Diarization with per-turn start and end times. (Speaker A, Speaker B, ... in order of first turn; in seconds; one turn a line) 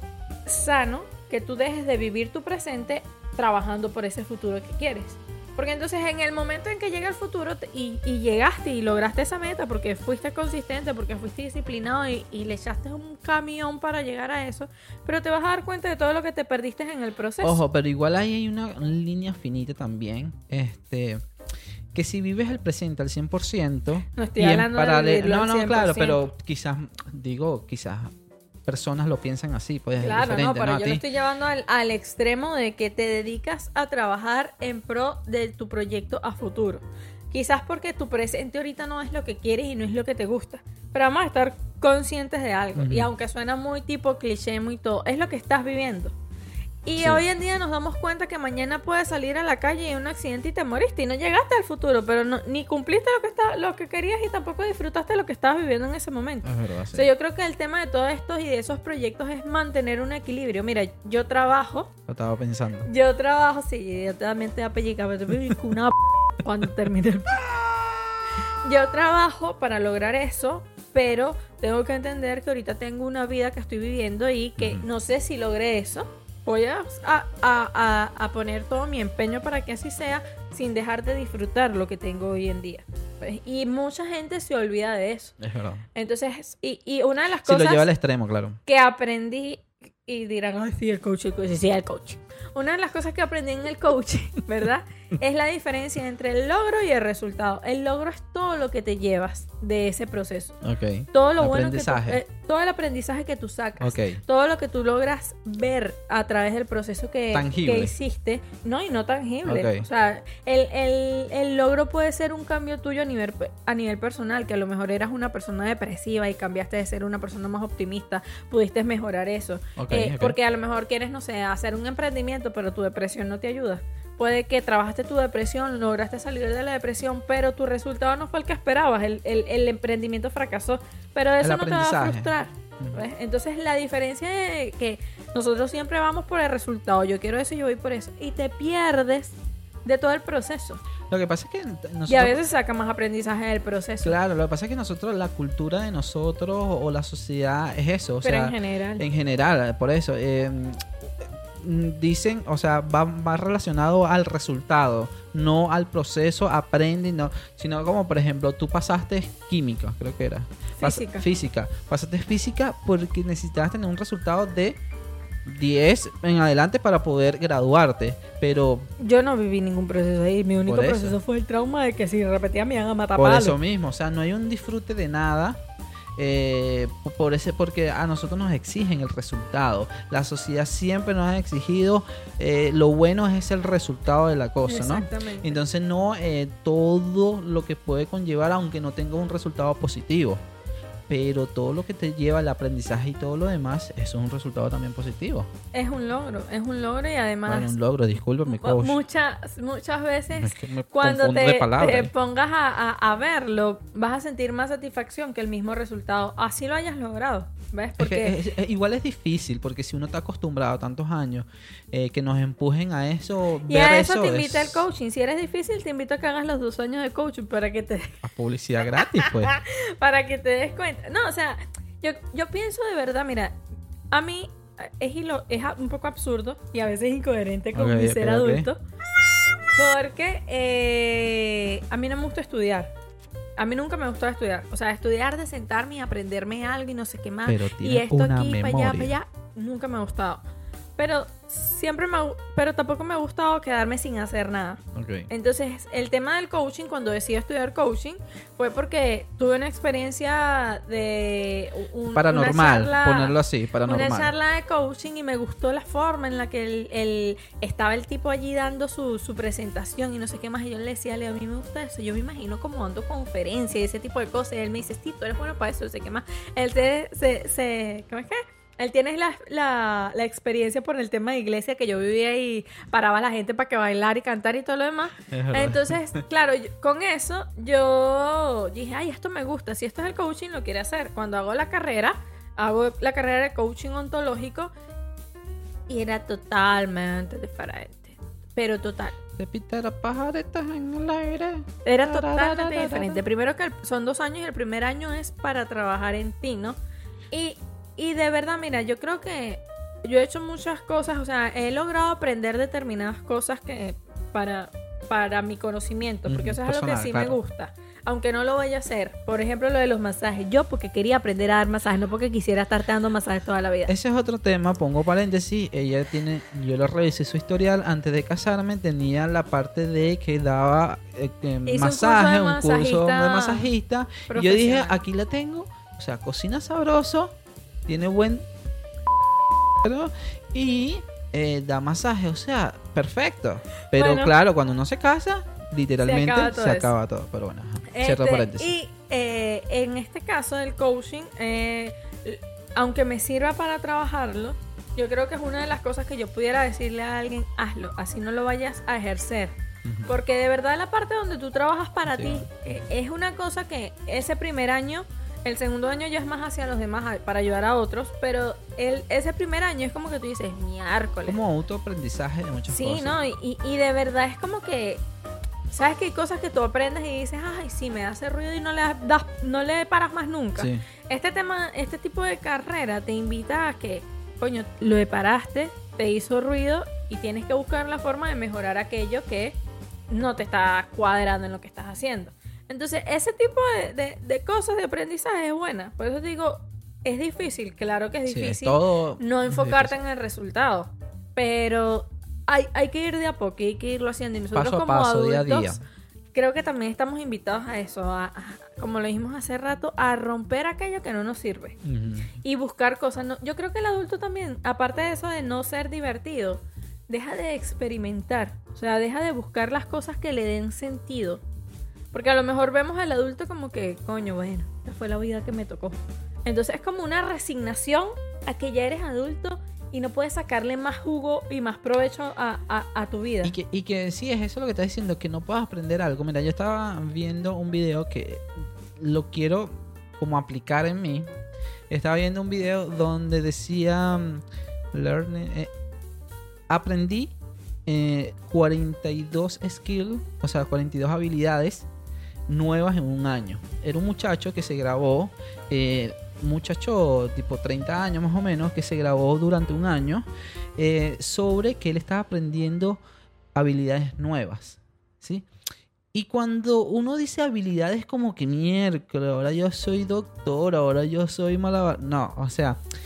Speaker A: 0.5-17.6
Speaker B: 17.4-21.2
Speaker B: 21.9-28.1
Speaker A: 24.2-26.2
Speaker B: 28.6-31.0
Speaker A: 30.0-46.1
Speaker B: 42.8-43.1
Speaker A: 46.9-61.9
Speaker B: 47.0-47.2
Speaker B: 56.4-57.1
Speaker B: 62.1-62.9
Speaker A: 62.9-67.5
Speaker A: 68.7-85.4
Speaker B: 74.6-74.9
Speaker B: 85.4-85.8
Speaker A: 86.0-87.9
Speaker B: 87.4-88.6
Speaker A: 88.7-100.6
Speaker B: 100.6-102.2
Speaker A: 101.1-140.8
Speaker B: 103.8-104.2
Speaker B: 107.3-107.9
Speaker B: 109.5-109.9
Speaker B: 119.8-120.4
Speaker B: 131.4-133.0
Speaker B: 141.1-142.4
Speaker A: 142.1-144.2
Speaker B: 144.0-164.8
Speaker A: 148.2-149.1
Speaker A: 160.8-161.3
Speaker B: 165.5-168.9
Speaker A: 169.0-173.6
Speaker B: 170.7-171.2
Speaker B: 173.2-175.6
Speaker B: 176.2-190.4
Speaker A: 184.7-185.6
Speaker B: 191.1-195.5
Speaker A: 195.7-197.8
Speaker B: 197.5-199.0
Speaker A: 198.4-208.4
Speaker B: 200.3-202.1
Speaker B: 208.0-214.8
Speaker A: 213.7-218.2
Speaker B: 218.2-219.6
Speaker A: 218.9-223.6
Speaker A: 224.1-228.8
Speaker B: 227.7-228.7
Speaker A: 229.8-232.9
Speaker A: 233.6-240.4
Speaker B: 237.5-239.2
Speaker A: 241.0-284.7
Speaker B: 244.9-245.3
Speaker B: 252.1-254.3
Speaker B: 275.3-276.1
Speaker A: 285.9-289.2
Speaker B: 289.4-293.2
Speaker A: 291.9-296.8
Speaker A: 297.3-313.9
Speaker B: 306.3-307.4
Speaker B: 313.9-327.4
Speaker A: 321.7-323.7
Speaker A: 324.3-325.0
Speaker B: 327.9-328.5
Speaker B: 329.8-338.7
Speaker A: 333.9-334.4
Speaker A: 336.0-336.9
Speaker A: 337.9-349.5
Speaker B: 349.9-350.1
Speaker A: 350.1-361.4
Speaker B: 352.1-352.5
Speaker B: 361.3-363.2
Speaker A: 362.7-365.0
Speaker A: 365.7-379.6
Speaker B: 370.6-370.8
Speaker A: 380.1-395.8
Speaker B: 388.3-390.0
Speaker B: 394.5-395.8
Speaker A: 396.3-401.8
Speaker B: 401.8-402.3
Speaker A: 402.4-411.4
Speaker A: 412.1-423.5
Speaker B: 423.4-431.3
Speaker B: 431.9-435.7
Speaker B: 436.7-437.3
Speaker B: 437.9-441.9
Speaker B: 442.5-453.0
Speaker B: 453.6-455.5
Speaker B: 456.1-462.8